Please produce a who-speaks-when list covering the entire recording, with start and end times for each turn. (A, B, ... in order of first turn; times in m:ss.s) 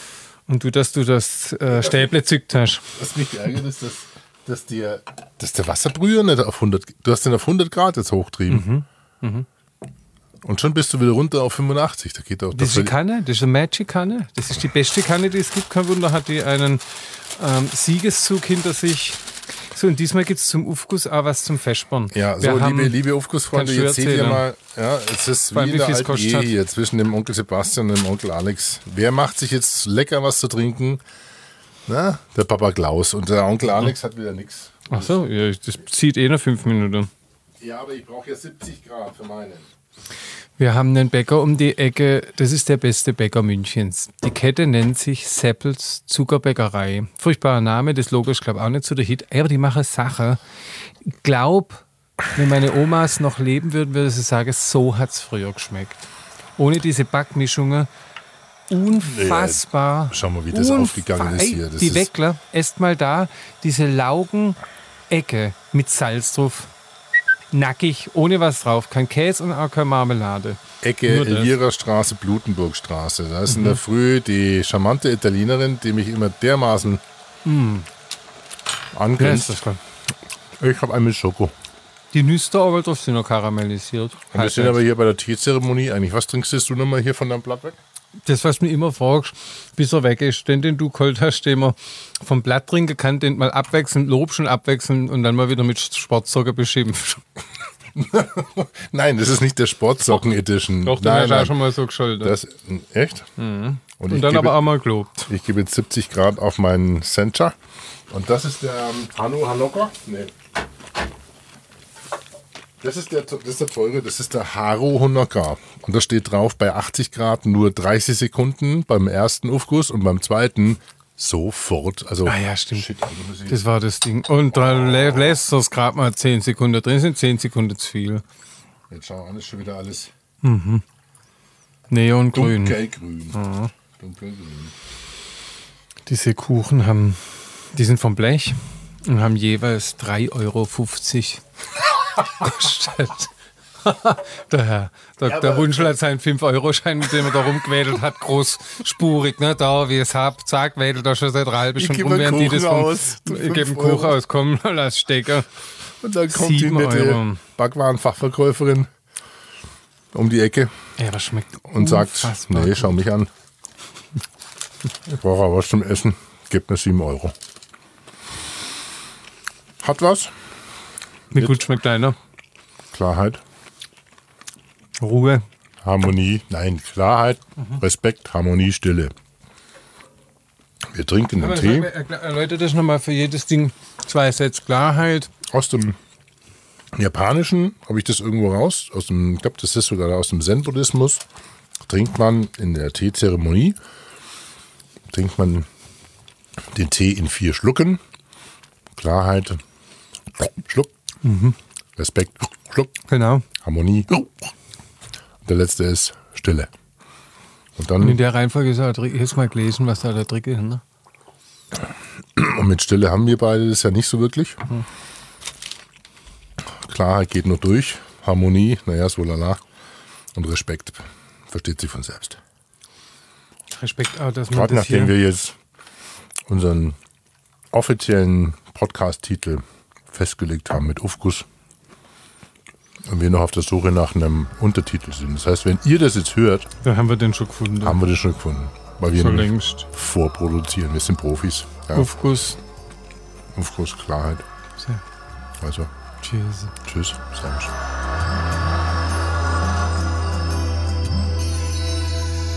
0:00.5-0:02.8 A
0:01.7-0:02.1 B
0:02.9-0:08.7 B
0:08.5-0:09.5 A
0:10.4-0:12.9 B
0:12.5-0:23.0 A
0:22.1-0:31.0 B
0:23.5-0:24.4 A
0:25.5-0:26.5 A
0:31.9-0:35.1 B
0:34.9-0:37.1 A
0:37.6-0:39.7 B
0:40.6-0:50.4 A
0:51.0-0:57.9 A
0:58.7-1:06.7 A
0:59.0-1:02.1 B
1:07.5-1:11.5 A
1:10.8-1:17.0 B
1:13.5-1:13.8 A
1:17.4-1:17.9 A
1:18.9-1:19.6 B
1:19.2-1:19.8 A
1:20.6-1:21.5 B
1:22.1-1:24.8 A
1:24.3-1:27.8 B
1:28.2-1:37.2 A
1:37.9-1:41.6 B
1:40.8-1:42.4 A
1:42.2-1:43.2 B
1:43.4-1:45.3 A
1:44.0-1:44.6 B
1:45.3-1:47.5 B
1:48.1-1:50.3 B
1:52.8-2:03.6 B
2:02.2-2:02.9 A
2:03.5-2:08.2 A
2:08.9-2:10.1 B
2:10.4-2:10.8 A
2:11.9-2:12.8 A
2:12.3-2:13.4 B
2:13.3-2:13.7 A
2:14.0-2:14.7 B
2:16.0-2:21.4 A
2:22.1-2:23.3 A
2:23.8-2:35.5 A
2:25.2-2:25.9 B
2:31.8-2:34.2 B
2:36.0-2:38.9 B
2:36.3-2:37.4 A
2:40.1-2:40.7 B
2:41.0-2:43.0 A
2:41.7-2:43.3 B
2:45.0-2:47.3 B
2:49.8-2:50.3 B
2:51.3-2:52.2 A
2:52.9-2:53.4 B
2:55.0-2:55.4 A
2:55.8-2:59.1 B
3:00.9-3:01.9 B
3:01.4-3:05.3 A
3:05.5-3:06.0 B
3:07.0-3:11.2 B
3:11.8-3:13.8 B
3:15.1-3:15.7 B
3:16.7-3:18.0 B
3:19.0-3:19.6 B
3:20.4-3:20.9 B
3:21.2-3:21.6 A
3:22.0-3:22.9 B
3:23.1-3:23.4 A
3:23.6-3:24.5 B
3:25.4-3:26.7 B
3:27.8-3:28.2 B
3:28.0-3:30.8 A
3:32.4-3:34.6 B
3:36.7-3:39.6 B
3:40.3-3:42.4 B
3:43.7-3:45.2 A
3:44.5-3:45.6 B
3:46.5-3:47.0 B
3:47.7-3:51.4 B
3:53.0-3:56.7 B
3:56.8-3:58.0 A
3:57.8-4:02.1 B
3:59.1-3:59.9 A
4:01.9-4:02.6 A
4:03.5-4:04.4 B
4:05.6-4:05.9 B
4:06.2-4:06.8 A
4:06.8-4:07.7 B